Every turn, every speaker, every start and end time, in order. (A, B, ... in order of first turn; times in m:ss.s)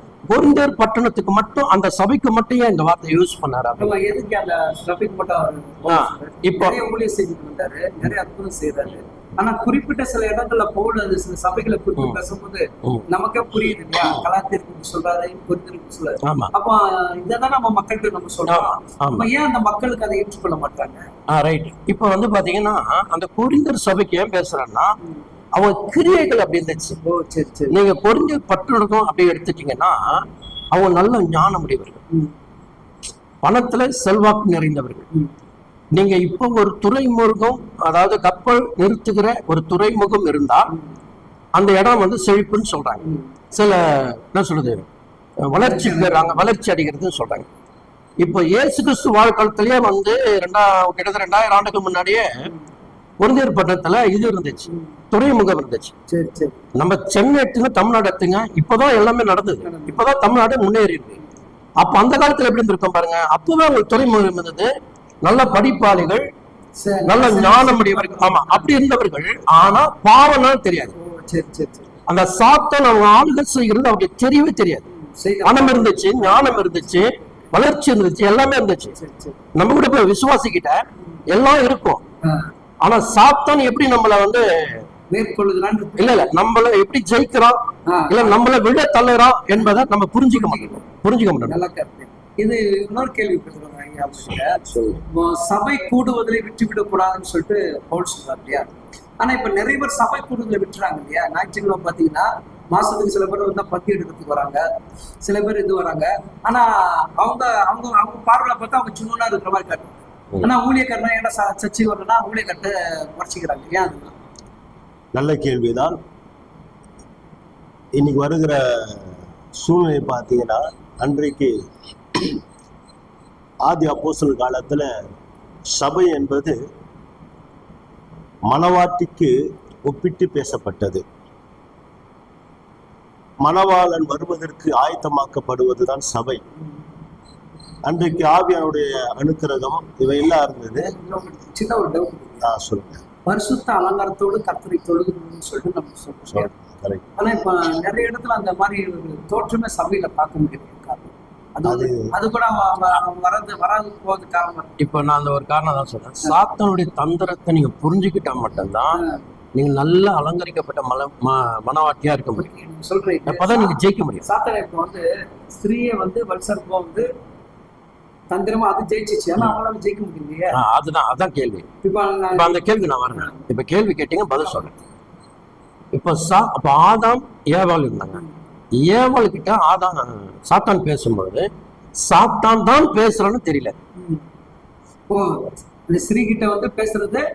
0:00.3-0:04.0 A
0:03.8-0:21.0 B
0:05.9-0:06.8 A
0:16.2-0:16.5 A
0:18.5-0:19.3 A
0:21.3-0:24.9 A
0:25.5-0:27.0 A
0:27.0-0:27.8 B
0:27.7-0:32.0 A
0:33.4-0:35.0 A
0:35.9-0:40.7 A
0:41.6-0:44.8 A
0:43.0-0:43.3 B
0:45.4-0:47.5 A
0:45.6-0:46.4 B
0:48.2-0:52.5 A
0:53.2-0:55.9 A
0:56.1-0:56.6 B
0:56.8-1:01.2 A
0:59.6-1:00.0 B
1:01.8-1:04.7 A
1:05.2-1:06.2 A
1:06.8-1:08.7 B
1:07.0-1:10.9 A
1:11.0-1:11.9 B
1:12.1-1:14.8 A
1:14.9-1:16.7 B
1:15.4-1:18.9 A
1:18.9-1:19.4 B
1:19.5-1:22.0 A
1:22.8-1:24.8 A
1:25.1-1:26.3 B
1:26.0-1:31.6 A
1:27.8-1:28.4 B
1:30.3-1:30.8 B
1:31.4-1:44.6 B
1:34.7-1:35.0 A
1:45.2-1:54.2 B
1:55.1-1:56.0 C
1:58.0-2:01.5 C
2:03.7-2:04.9 C
2:05.7-2:06.6 C
2:08.5-2:09.3 C
2:09.8-2:11.0 C
2:13.4-2:16.4 C
2:17.8-2:20.9 C
2:20.8-2:22.5 B
2:22.4-2:23.0 C
2:23.2-2:26.5 B
2:26.3-2:27.0 C
2:27.2-2:34.7 B
2:31.6-2:32.1 C
2:34.8-2:39.0 A
2:38.9-2:39.2 B
2:39.6-2:42.4 A
2:42.4-2:47.1 B
2:43.3-2:44.2 A
2:48.3-2:50.6 B
2:50.5-2:51.6 A
2:51.8-2:52.6 B
2:52.3-2:54.7 A
2:53.1-2:53.4 B
2:55.9-2:58.2 A
2:58.8-3:01.5 A
3:02.0-3:03.7 A
3:05.1-3:07.2 B